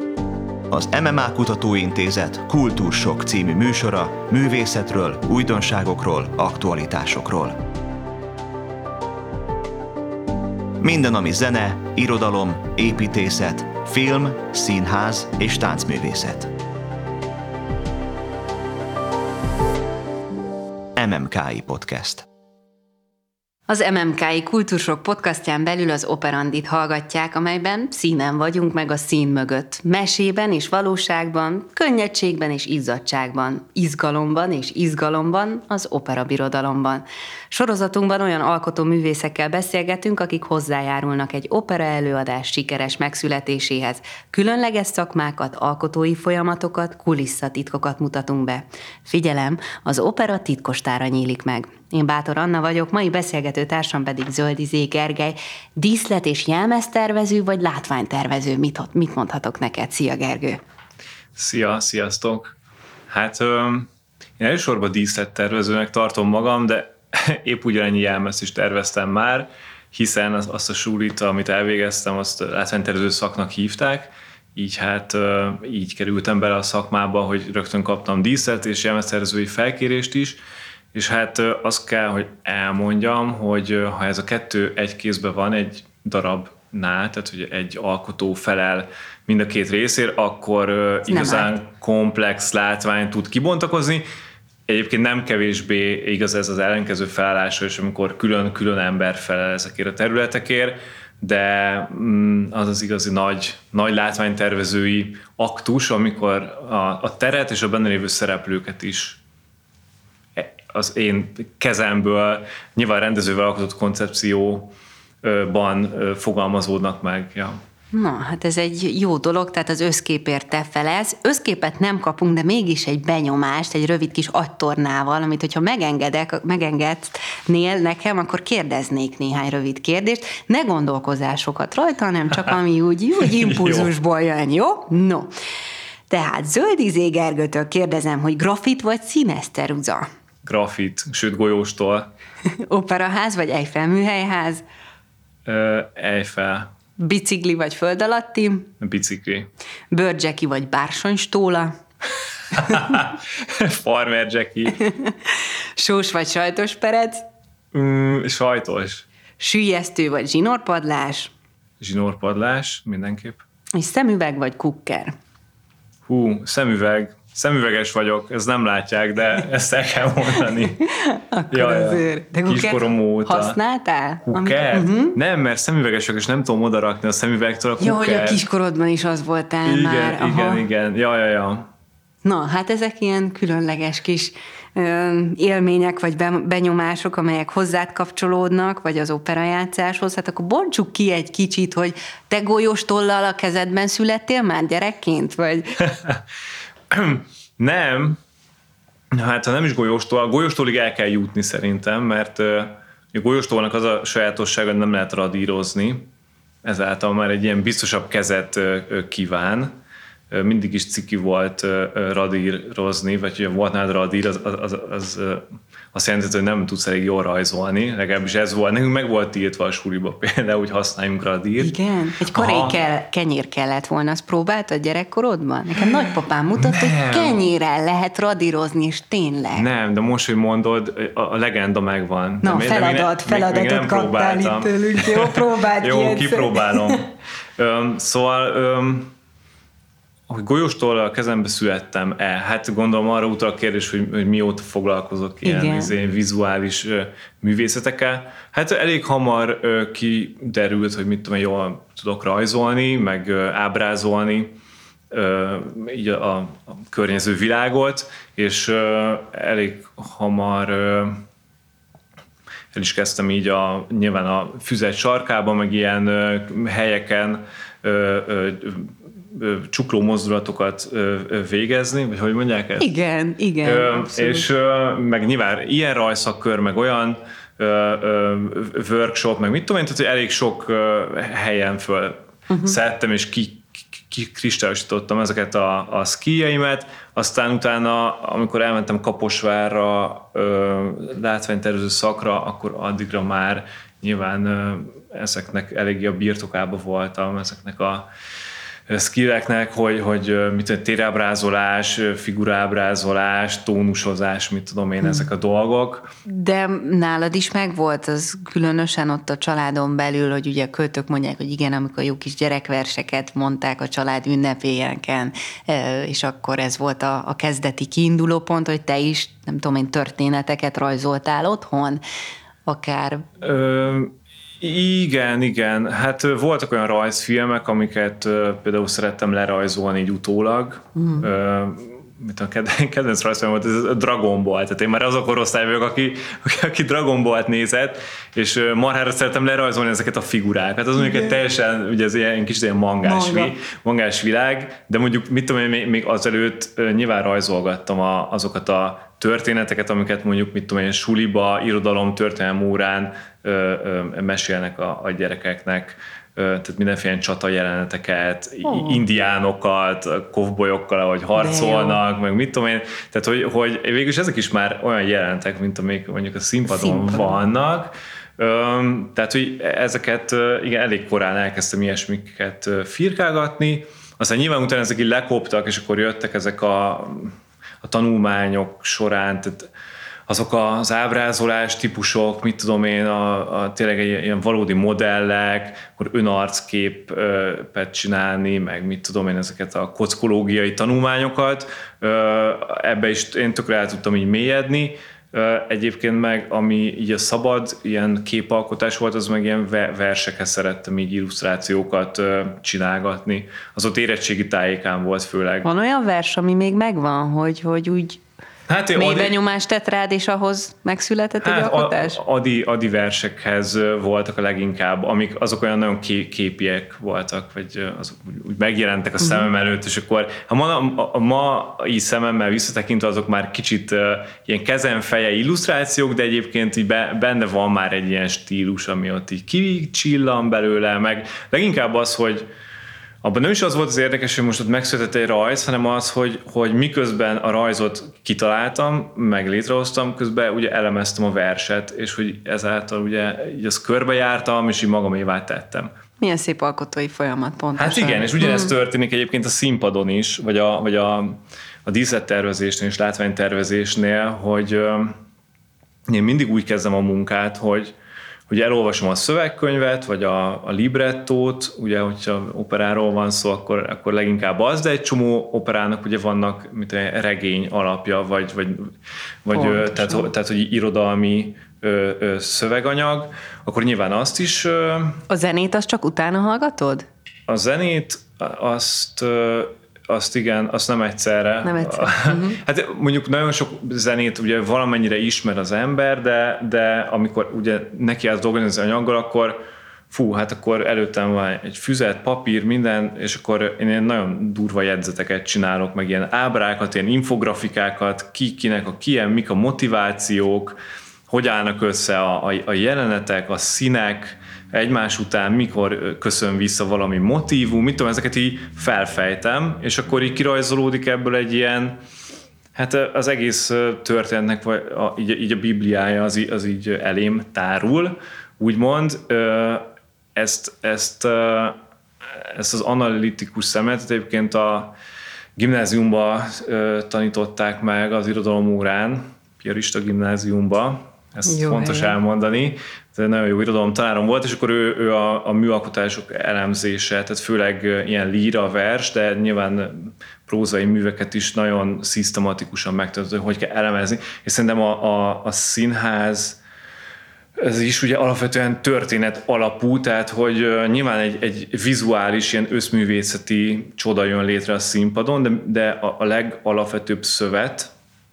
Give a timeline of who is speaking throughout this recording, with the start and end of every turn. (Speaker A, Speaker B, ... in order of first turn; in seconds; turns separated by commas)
Speaker A: 0.7-7.6, Speaker A: 10.8-16.5, Speaker A: 20.9-22.2, Speaker B: 23.7-60.6, Speaker C: 61.3-62.5, Speaker C: 63.1-80.4, Speaker C: 80.9-94.0, Speaker B: 91.1-91.5, Speaker C: 94.7-109.2, Speaker C: 110.3-117.6, Speaker B: 117.9-135.3, Speaker C: 133.2-133.9, Speaker B: 136.1-140.1, Speaker C: 140.4-142.1, Speaker B: 142.4-144.6, Speaker C: 145.4-146.7, Speaker B: 147.0-148.7, Speaker C: 148.8-149.5, Speaker B: 149.9-151.8, Speaker C: 152.5-154.8, Speaker B: 152.6-152.8, Speaker B: 154.8-157.2, Speaker C: 157.7-159.0, Speaker B: 159.4-161.3, Speaker C: 161.8-163.4, Speaker B: 163.7-165.2, Speaker C: 166.1-170.8, Speaker B: 170.8-175.2, Speaker C: 171.5-173.6, Speaker C: 174.2-178.4, Speaker B: 177.8-180.6, Speaker C: 179.6-181.7, Speaker B: 182.2-195.8, Speaker C: 195.8-196.2, Speaker C: 196.9-198.2, Speaker C: 199.1-206.1, Speaker C: 206.6-209.7, Speaker C: 210.3-221.7, Speaker B: 221.6-229.7, Speaker C: 222.2-222.8, Speaker C: 226.6-227.4, Speaker C: 229.5-239.1, Speaker B: 232.4-237.0, Speaker C: 240.3-254.6, Speaker B: 245.4-245.9, Speaker C: 255.1-261.2, Speaker C: 262.7-272.9, Speaker B: 272.8-274.4, Speaker C: 273.6-298.1, Speaker B: 282.5-282.7, Speaker C: 298.9-306.1, Speaker B: 306.2-322.0, Speaker B: 322.6-323.3, Speaker C: 323.4-379.7, Speaker B: 330.9-331.3, Speaker B: 341.0-341.3, Speaker B: 343.0-343.5, Speaker B: 358.6-359.0, Speaker B: 361.4-362.0, Speaker B: 366.7-367.4, Speaker C: 380.3-405.7, Speaker B: 405.6-408.2, Speaker C: 408.7-409.4, Speaker B: 408.9-412.2, Speaker C: 411.4-432.4, Speaker B: 419.2-419.4, Speaker C: 433.2-445.9, Speaker B: 446.2-448.7, Speaker C: 447.8-455.2, Speaker C: 456.1-457.9, Speaker C: 458.5-475.2, Speaker B: 469.5-470.2, Speaker B: 475.3-477.0, Speaker C: 477.5-489.6, Speaker B: 481.6-482.6, Speaker C: 490.1-500.8, Speaker C: 501.3-512.0, Speaker C: 512.7-524.9, Speaker C: 525.5-546.6, Speaker B: 531.5-532.2, Speaker C: 547.6-557.9